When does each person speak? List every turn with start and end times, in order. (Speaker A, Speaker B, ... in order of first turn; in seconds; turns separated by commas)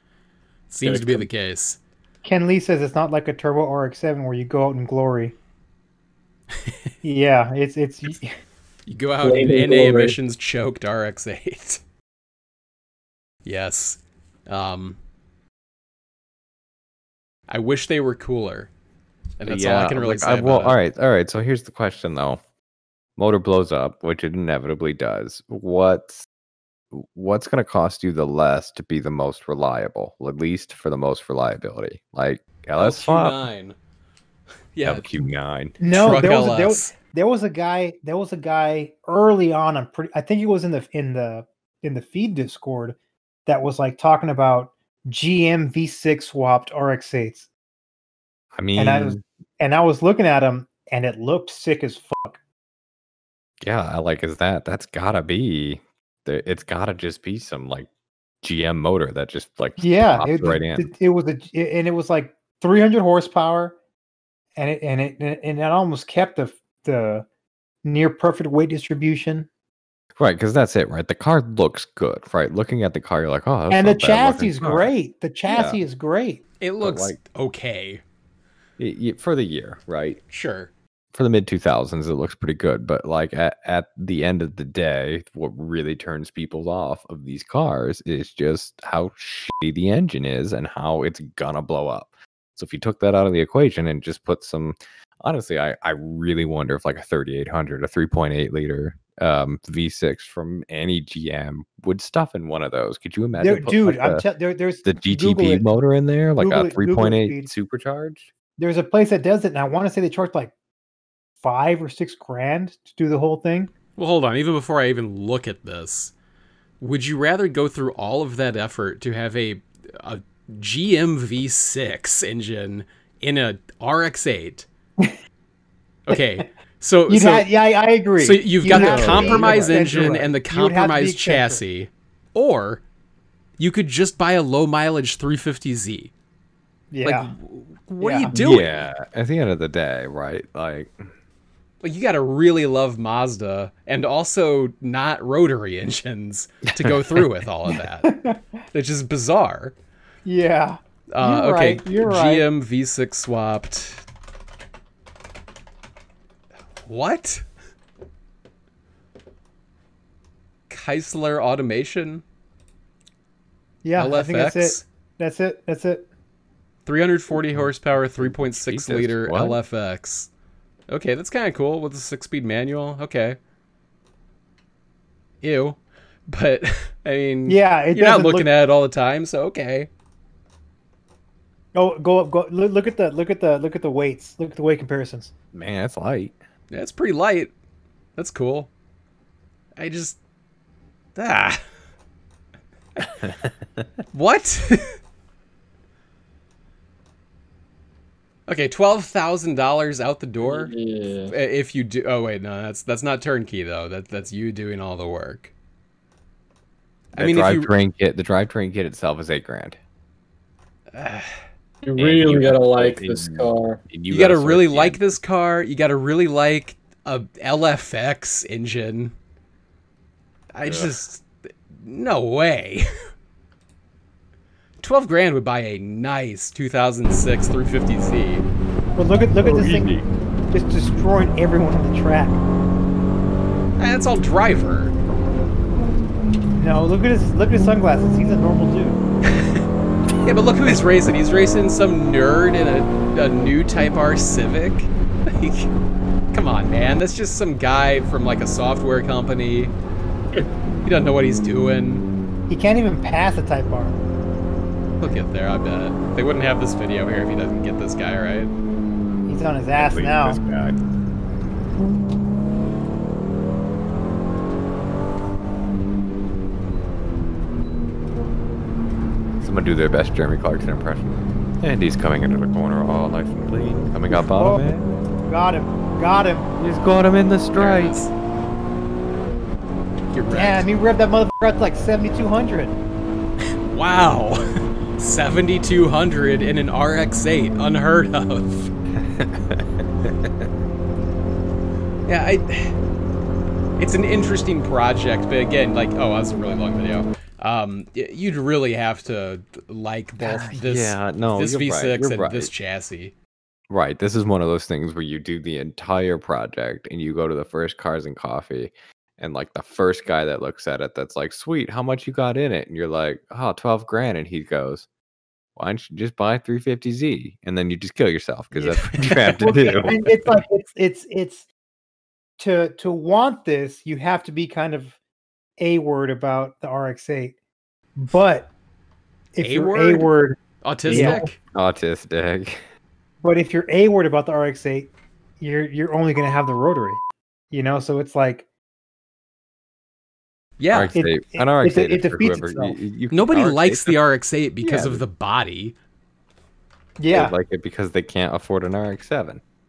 Speaker A: 0.7-1.8, Speaker B: 0.8-1.3, Speaker C: 2.2-5.3, Speaker C: 7.0-8.3, Speaker A: 8.9-11.8, Speaker B: 9.2-10.2, Speaker A: 13.4-15.0, Speaker A: 17.5-18.7, Speaker A: 19.4-20.8, Speaker D: 19.4-22.4, Speaker D: 23.2-26.3, Speaker D: 26.9-33.4, Speaker A: 32.8-33.8, Speaker A: 34.7-35.2, Speaker D: 34.8-35.8, Speaker C: 35.8-47.5, Speaker A: 35.9-36.9, Speaker D: 48.6-49.2, Speaker C: 48.8-52.4, Speaker D: 53.6-57.9, Speaker D: 58.4-60.9, Speaker C: 59.8-63.8, Speaker C: 64.6-67.2, Speaker C: 67.8-69.5, Speaker D: 70.2-74.9, Speaker C: 73.7-76.4, Speaker D: 75.5-75.8, Speaker A: 76.6-78.0, Speaker D: 76.8-77.2, Speaker D: 78.8-80.2, Speaker A: 80.3-80.7, Speaker D: 81.1-104.2, Speaker C: 103.4-105.7, Speaker D: 104.8-108.3, Speaker C: 106.4-107.5, Speaker C: 108.6-110.5, Speaker C: 111.4-113.7, Speaker A: 114.0-116.1, Speaker A: 116.8-124.7, Speaker A: 126.0-127.5, Speaker C: 127.1-131.6, Speaker A: 128.2-132.8, Speaker D: 128.7-130.2, Speaker A: 133.6-136.1, Speaker C: 136.9-137.3, Speaker A: 137.0-138.9, Speaker C: 138.0-138.3, Speaker D: 138.3-141.1, Speaker A: 141.8-148.1, Speaker D: 146.8-147.2, Speaker C: 148.0-148.4, Speaker A: 148.7-149.7, Speaker C: 150.2-152.5, Speaker A: 151.1-154.0, Speaker A: 156.8-157.4, Speaker A: 160.7-162.2, Speaker C: 163.8-166.1, Speaker A: 163.9-164.8, Speaker A: 166.8-170.3, Speaker D: 167.5-169.6, Speaker A: 170.9-173.4, Speaker A: 175.4-179.9, Speaker C: 177.4-178.5, Speaker C: 181.7-185.3, Speaker D: 185.5-186.3, Speaker A: 186.7-187.5, Speaker A: 188.2-188.7, Speaker A: 189.8-190.2, Speaker A: 191.2-191.6, Speaker D: 193.2-193.8, Speaker A: 194.1-195.0, Speaker A: 198.5-200.7, Speaker B: 200.4-201.3, Speaker A: 201.3-205.5, Speaker A: 207.1-207.7, Speaker D: 207.2-209.8, Speaker A: 210.9-211.3, Speaker B: 211.8-213.8, Speaker D: 212.0-215.1, Speaker A: 214.1-219.1, Speaker A: 220.5-222.9, Speaker D: 220.6-220.9, Speaker A: 224.8-228.4, Speaker C: 228.9-229.9, Speaker D: 229.4-230.1, Speaker C: 230.5-232.4, Speaker A: 233.8-234.9, Speaker C: 236.6-239.0, Speaker A: 239.3-239.6, Speaker A: 240.2-245.7, Speaker A: 246.3-249.7, Speaker A: 250.8-252.1, Speaker C: 252.5-254.0, Speaker A: 255.0-258.5, Speaker C: 259.3-260.4, Speaker D: 259.7-260.8, Speaker D: 269.4-274.9, Speaker C: 274.1-276.6, Speaker D: 276.6-278.0, Speaker A: 277.6-278.1, Speaker A: 280.1-280.7, Speaker C: 280.3-282.8, Speaker A: 283.6-288.7, Speaker D: 289.0-290.5, Speaker A: 292.1-292.8, Speaker A: 293.8-303.1, Speaker D: 300.2-302.5, Speaker D: 303.7-314.9, Speaker D: 315.6-320.4, Speaker C: 318.6-321.4, Speaker A: 319.0-319.9, Speaker C: 322.4-325.0, Speaker C: 325.6-327.4, Speaker C: 327.9-328.5, Speaker C: 329.4-331.3, Speaker A: 329.4-330.1, Speaker A: 330.6-331.4, Speaker D: 330.9-332.6, Speaker C: 333.2-338.5, Speaker A: 340.6-340.9, Speaker D: 340.7-344.0, Speaker C: 340.9-342.8, Speaker A: 343.1-345.8, Speaker D: 344.6-345.0, Speaker C: 347.0-347.4, Speaker D: 347.1-349.4